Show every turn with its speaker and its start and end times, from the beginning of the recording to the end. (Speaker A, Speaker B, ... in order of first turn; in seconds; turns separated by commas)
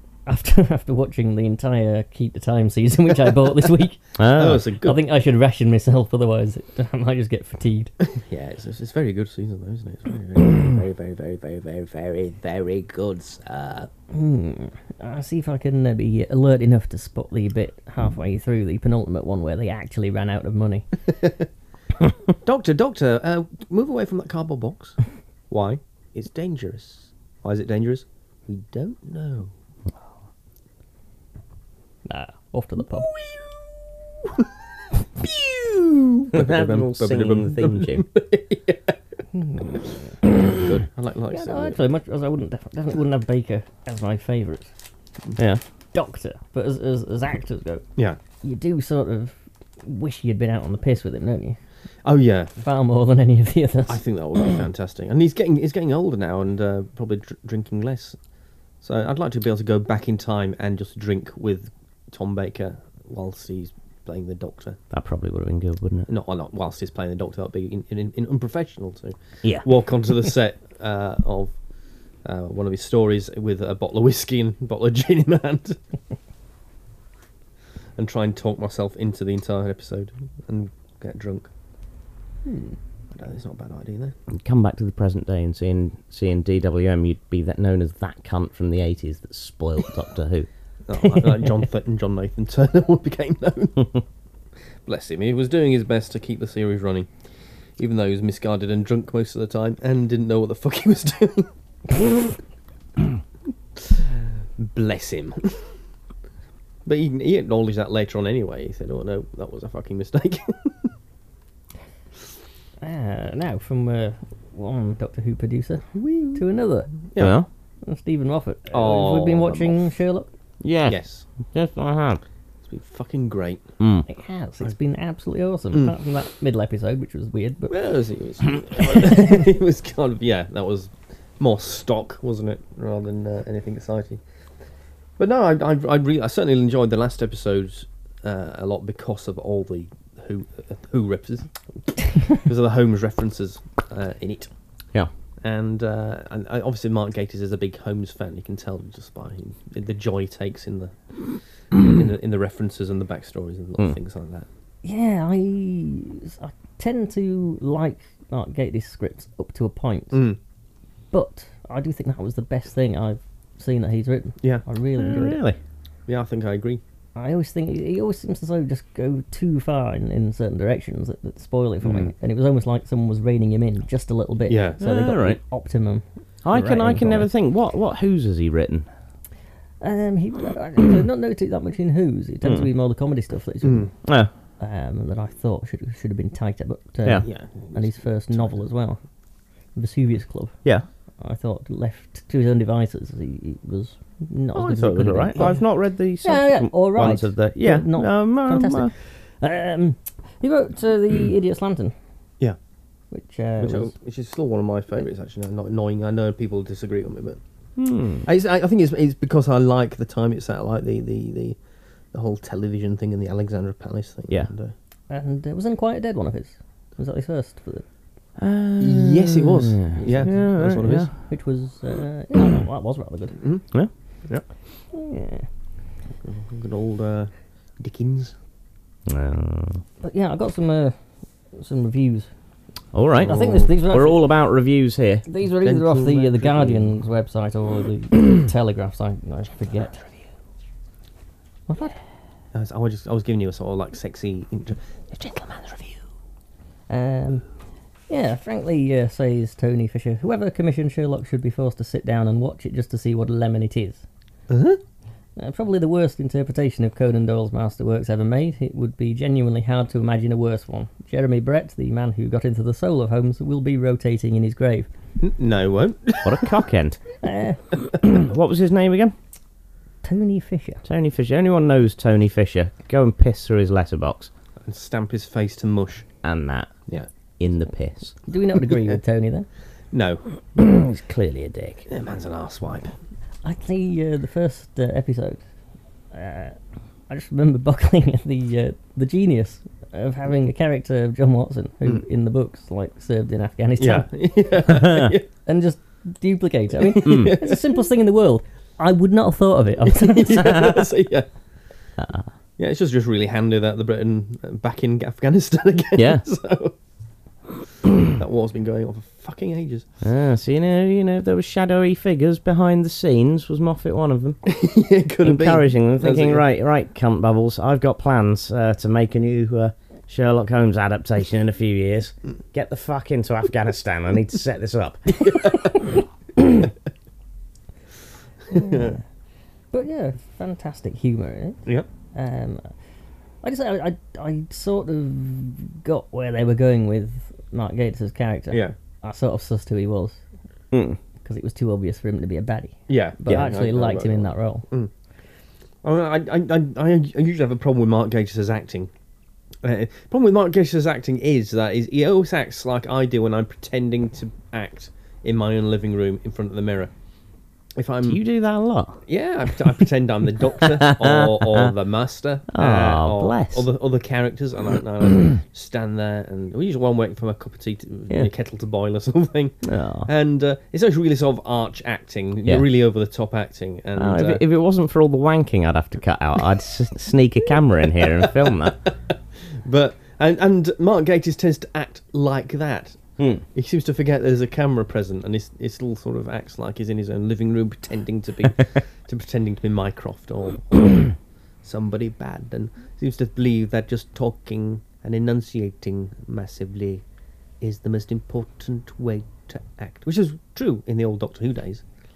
Speaker A: 0.2-4.0, Speaker B: 4.2-4.6, Speaker C: 4.3-5.0, Speaker A: 4.8-7.9, Speaker C: 8.2-13.9, Speaker A: 14.1-20.9, Speaker C: 22.4-25.0, Speaker C: 25.5-29.5, Speaker A: 32.0-33.1, Speaker C: 33.1-33.4, Speaker C: 35.2-38.9, Speaker B: 36.3-38.0, Speaker A: 39.4-39.8, Speaker C: 40.3-41.8, Speaker A: 41.3-44.7, Speaker A: 45.9-47.8, Speaker A: 48.4-51.6, Speaker C: 52.0-52.5, Speaker A: 52.6-54.0, Speaker C: 53.9-58.2, Speaker C: 58.8-64.8, Speaker B: 64.9-66.1, Speaker C: 66.1-71.5, Speaker C: 72.2-75.8, Speaker C: 78.0-81.5, Speaker A: 82.5-82.7, Speaker C: 83.1-84.1, Speaker B: 84.3-90.5, Speaker C: 90.9-94.0, Speaker C: 94.8-97.1, Speaker C: 97.8-102.3, Speaker C: 103.8-105.6, Speaker C: 106.8-110.9, Speaker A: 112.8-116.9, Speaker C: 115.9-116.4, Speaker C: 117.1-117.4, Speaker B: 117.2-117.5, Speaker A: 117.8-120.3, Speaker C: 118.7-119.8, Speaker B: 120.6-122.2, Speaker C: 120.9-121.2, Speaker C: 122.7-123.6, Speaker B: 123.8-124.0, Speaker A: 124.1-127.7, Speaker C: 127.7-134.2, Speaker C: 135.2-141.5, Speaker C: 142.2-144.5, Speaker C: 145.4-154.5, Speaker A: 154.8-160.2, Speaker C: 160.1-160.4, Speaker A: 161.1-165.4, Speaker B: 165.0-165.6, Speaker C: 166.1-166.8, Speaker A: 167.2-177.3, Speaker C: 174.5-174.8, Speaker B: 174.8-175.4, Speaker B: 176.4-178.9, Speaker A: 179.8-183.9, Speaker C: 183.6-183.9, Speaker B: 184.0-184.3, Speaker A: 184.6-189.0, Speaker C: 187.2-188.5, Speaker A: 189.7-190.6, Speaker A: 191.2-195.6, Speaker B: 194.5-198.9, Speaker A: 196.2-201.9, Speaker A: 203.1-203.9, Speaker C: 203.6-207.4, Speaker B: 207.8-208.2, Speaker C: 208.2-211.6, Speaker C: 212.1-214.7, Speaker A: 215.1-217.8, Speaker B: 218.4-221.1, Speaker C: 218.8-221.1, Speaker A: 220.0-220.5, Speaker A: 221.2-223.4, Speaker C: 223.4-223.7, Speaker A: 224.9-225.5, Speaker C: 226.2-228.3, Speaker B: 229.1-229.8, Speaker A: 230.0-230.9, Speaker A: 231.5-232.3, Speaker B: 232.9-235.2, Speaker C: 233.2-233.6, Speaker A: 233.2-234.2, Speaker A: 235.3-240.0, Speaker C: 235.6-236.8, Speaker A: 241.7-241.9, Speaker C: 242.5-246.0, Speaker A: 246.9-247.4, Speaker A: 248.1-254.0, Speaker C: 254.5-254.8, Speaker A: 255.4-264.9, Speaker C: 265.2-266.6, Speaker B: 266.2-267.0, Speaker A: 267.2-267.6, Speaker B: 268.0-269.1, Speaker A: 270.0-270.8, Speaker B: 270.8-274.3, Speaker C: 274.6-276.1, Speaker B: 276.2-276.7, Speaker B: 277.4-278.1, Speaker A: 278.3-279.5, Speaker C: 279.9-280.2, Speaker B: 280.6-281.9, Speaker C: 281.9-282.9, Speaker A: 283.4-285.4, Speaker A: 286.1-286.6, Speaker A: 287.1-294.1, Speaker C: 293.8-295.3, Speaker B: 294.8-295.1, Speaker A: 295.4-300.7, Speaker C: 296.9-297.6, Speaker B: 297.0-297.4, Speaker C: 299.9-301.3, Speaker B: 302.0-302.3, Speaker C: 302.6-306.7, Speaker B: 305.9-306.2, Speaker C: 308.1-309.9, Speaker B: 310.0-314.4, Speaker C: 314.4-316.4, Speaker B: 315.2-325.1, Speaker C: 325.2-325.7, Speaker C: 328.5-329.0, Speaker A: 328.5-329.0, Speaker A: 329.7-331.6, Speaker A: 332.1-332.7, Speaker A: 333.4-340.2, Speaker B: 340.7-341.0, Speaker A: 341.2-344.6, Speaker C: 342.9-344.9, Speaker C: 345.8-348.9, Speaker C: 349.6-356.9, Speaker C: 357.8-358.2, Speaker B: 358.0-359.0, Speaker C: 359.1-374.4, Speaker B: 360.6-361.7, Speaker B: 362.5-363.6, Speaker B: 369.6-370.1, Speaker B: 373.9-378.8, Speaker C: 379.6-383.0, Speaker C: 383.5-391.1, Speaker C: 391.6-397.0, Speaker C: 397.6-401.8